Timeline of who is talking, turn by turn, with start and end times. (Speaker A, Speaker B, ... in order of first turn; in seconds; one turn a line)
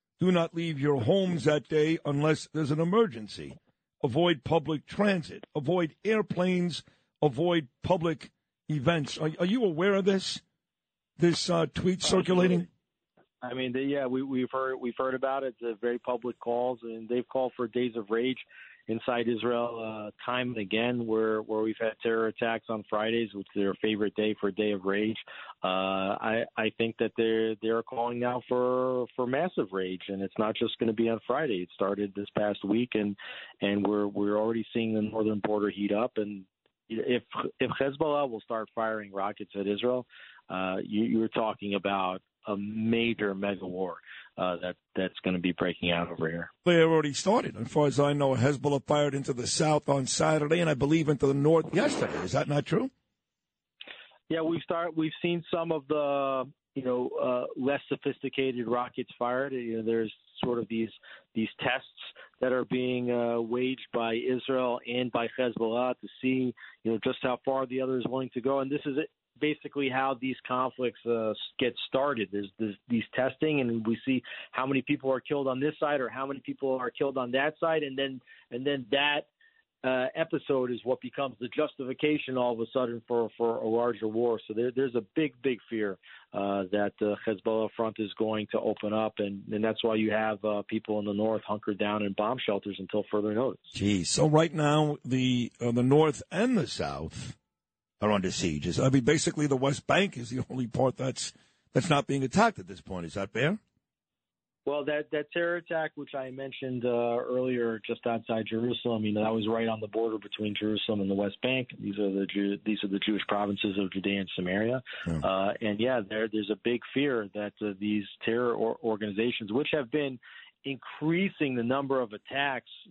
Speaker A: 0.2-10.4
Speaker A: 11.2-12.7
Speaker B: 13.4-46.5
Speaker A: 46.6-52.9
Speaker B: 54.3-79.3
Speaker B: 79.8-93.7
Speaker A: 93.7-97.4
Speaker A: 98.0-103.6
Speaker B: 104.7-122.7